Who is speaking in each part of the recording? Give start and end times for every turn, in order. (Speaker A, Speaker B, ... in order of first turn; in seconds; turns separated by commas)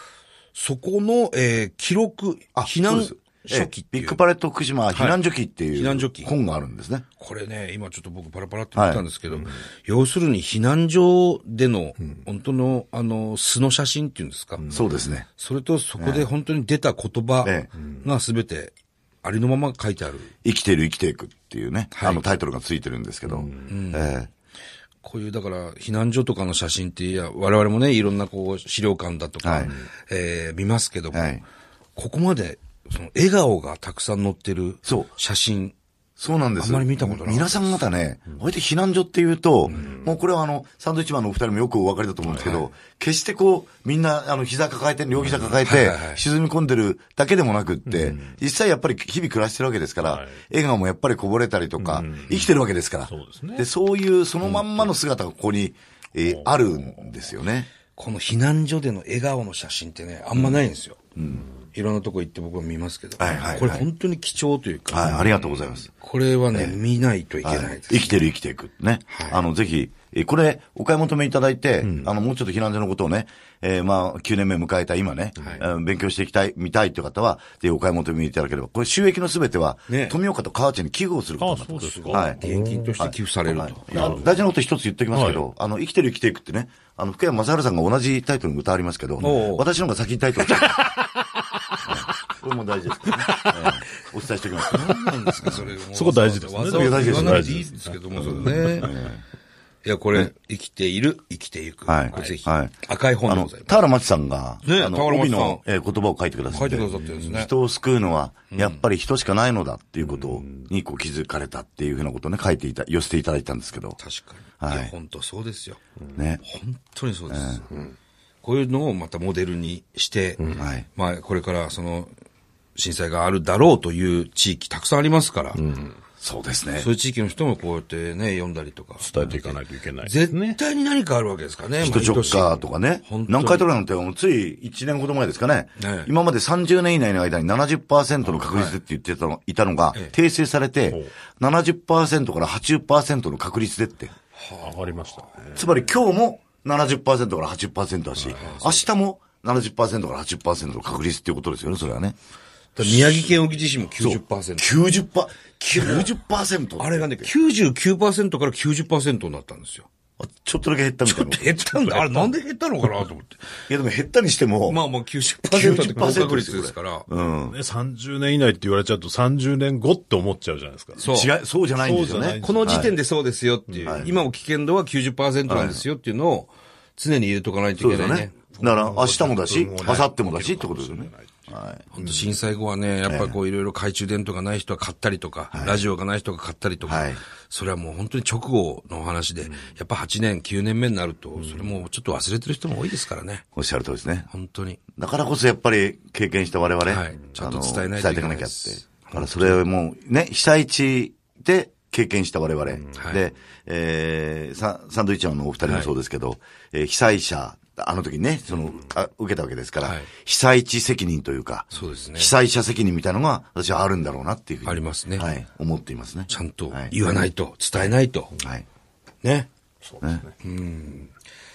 Speaker A: 0.5-4.2, Speaker B: 2.5-7.0, Speaker A: 4.9-5.2, Speaker A: 5.7-6.3, Speaker A: 7.2-14.7, Speaker B: 8.7-9.0, Speaker C: 14.6-14.9, Speaker B: 14.7-15.2, Speaker A: 15.3-20.3, Speaker B: 16.0-16.3, Speaker B: 17.4-17.7, Speaker B: 20.4-24.3, Speaker A: 21.9-22.4, Speaker C: 23.3-23.7, Speaker A: 23.6-24.1, Speaker A: 25.0-31.4, Speaker B: 29.4-29.7, Speaker B: 31.1-31.4, Speaker A: 31.9-35.7, Speaker B: 34.8-35.1, Speaker B: 36.2-57.7, Speaker A: 36.6-37.5, Speaker C: 39.7-40.1, Speaker C: 42.3-42.5, Speaker A: 42.3-42.6, Speaker C: 45.2-45.5, Speaker A: 45.6-46.2, Speaker C: 47.9-48.4, Speaker C: 50.0-50.4, Speaker C: 51.8-52.5, Speaker C: 53.1-53.7, Speaker C: 54.5-54.8, Speaker C: 56.3-57.0, Speaker A: 57.9-61.0, Speaker B: 60.3-60.6, Speaker B: 61.1-61.5, Speaker A: 61.7-65.3, Speaker B: 63.2-63.9, Speaker B: 64.9-65.9, Speaker A: 65.9-68.2, Speaker B: 66.5-66.8, Speaker B: 67.4-82.4, Speaker A: 69.1-69.4, Speaker C: 71.8-72.1, Speaker A: 75.4-75.6, Speaker A: 79.9-80.2, Speaker C: 81.4-83.0, Speaker A: 81.8-84.2, Speaker B: 83.0-90.9, Speaker C: 83.9-84.3, Speaker C: 85.1-85.4, Speaker A: 89.2-89.7, Speaker C: 90.5-92.0, Speaker B: 91.8-95.7, Speaker C: 93.0-93.7, Speaker C: 94.7-98.9, Speaker A: 94.7-99.0, Speaker B: 96.7-97.5, Speaker B: 98.2-99.2, Speaker A: 99.8-103.7, Speaker B: 101.8-114.0, Speaker A: 104.6-105.6, Speaker A: 106.5-107.5, Speaker A: 108.5-108.8, Speaker C: 110.0-110.6, Speaker A: 114.0-115.8, Speaker B: 114.6-114.9, Speaker B: 116.1-116.4, Speaker A: 116.4-117.7, Speaker B: 117.3-117.6, Speaker A: 118.4-122.1, Speaker B: 120.5-120.8, Speaker A: 122.7-125.6, Speaker C: 125.5-126.0, Speaker B: 126.2-126.9, Speaker A: 126.8-133.7, Speaker C: 129.0-130.6, Speaker B: 131.8-144.1, Speaker C: 131.8-132.4, Speaker A: 135.8-136.1, Speaker C: 138.2-138.5, Speaker A: 144.3-144.7, Speaker C: 144.6-145.7, Speaker B: 145.5-152.2, Speaker C: 148.2-148.5, Speaker A: 148.3-148.8, Speaker A: 152.8-154.7, Speaker B: 152.8-153.3, Speaker B: 154.0-157.3, Speaker A: 155.6-156.1, Speaker A: 156.8-159.9, Speaker B: 160.2-161.6, Speaker A: 161.1-163.4, Speaker C: 161.7-162.3, Speaker B: 163.7-164.8, Speaker A: 164.7-167.1, Speaker B: 165.5-167.6, Speaker C: 165.6-166.3, Speaker C: 167.5-171.0, Speaker A: 171.0-171.3, Speaker B: 171.0-172.9, Speaker C: 171.8-173.0, Speaker A: 172.4-178.3, Speaker C: 173.7-174.1, Speaker B: 175.5-175.8, Speaker B: 177.8-181.8, Speaker C: 178.5-181.4, Speaker A: 181.9-193.4, Speaker B: 183.1-183.3, Speaker B: 185.5-185.8, Speaker B: 186.8-187.2, Speaker B: 193.5-194.3, Speaker A: 194.3-194.8, Speaker B: 194.9-217.2, Speaker A: 196.8-199.6, Speaker A: 202.9-203.2, Speaker A: 205.6-205.9, Speaker A: 209.8-210.1, Speaker A: 211.7-212.3, Speaker A: 214.6-215.3, Speaker A: 216.3-218.3, Speaker B: 217.7-218.6, Speaker A: 219.2-219.5, Speaker A: 220.4-221.1